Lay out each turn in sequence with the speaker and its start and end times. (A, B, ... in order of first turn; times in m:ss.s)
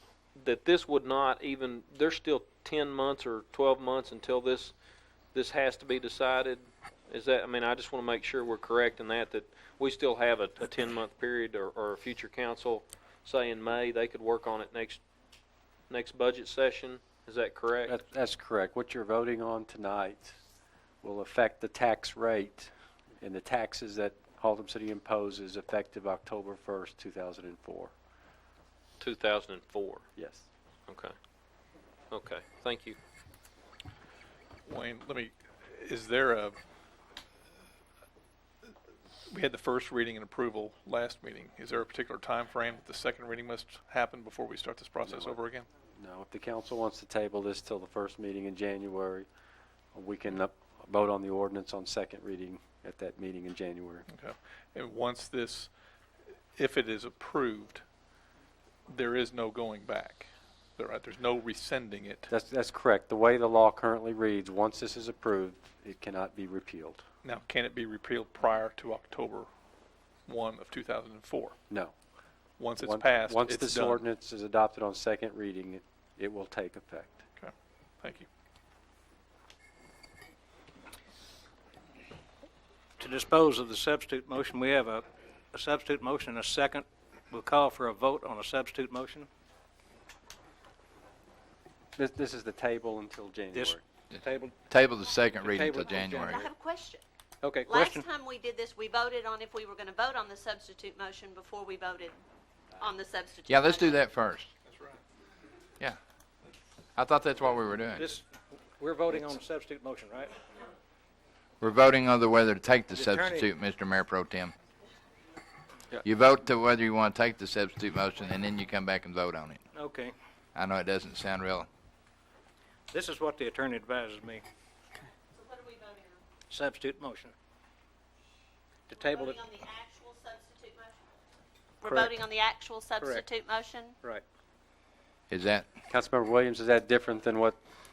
0:00.4-0:04.8 A
0:05.3-0:15.0 A
0:15.9-0:18.0 A
0:17.9-0:20.4 B
0:21.0-0:27.9 B
0:29.0-0:30.0 A
0:30.2-0:30.5 B
0:30.9-0:31.1 A
0:32.1-0:33.0 A
0:34.6-0:36.6 C
0:39.3-0:45.7 C
0:45.1-0:45.4 B
0:46.0-0:49.3 B
0:49.9-0:54.1 B
0:54.1-0:55.7 C
0:56.6-0:57.8 C
0:58.9-1:02.3 C
1:02.3-1:07.0 B
1:07.2-1:09.5 C
1:10.3-1:11.6 C
1:12.6-1:14.0 C
1:12.8-1:17.2 B
1:17.4-1:18.3 C
1:23.0-1:29.3 D
1:32.0-1:33.8 B
1:33.5-1:34.6 D
1:34.7-1:36.4 E
1:35.4-1:36.5 D
1:36.1-1:37.0 F
1:37.4-1:38.1 D
1:37.7-1:42.2 F
1:42.8-1:44.0 F
1:43.5-1:44.5 E
1:44.6-1:45.0 C
1:47.0-1:48.1 E
1:48.0-1:48.3 D
1:48.8-1:50.3 D
1:51.6-1:54.5 E
1:52.9-1:53.5 D
1:56.0-1:59.6 E
1:59.7-2:00.1 D
2:00.6-2:01.7 E
2:02.9-2:04.4 D
2:05.3-2:06.2 F
2:06.5-2:07.3 D
2:08.9-2:11.1 F
2:08.9-2:09.4 D
2:11.8-2:14.0 F
2:11.8-2:12.2 D
2:13.0-2:13.3 D
2:15.3-2:15.7 E
2:15.9-2:17.6 B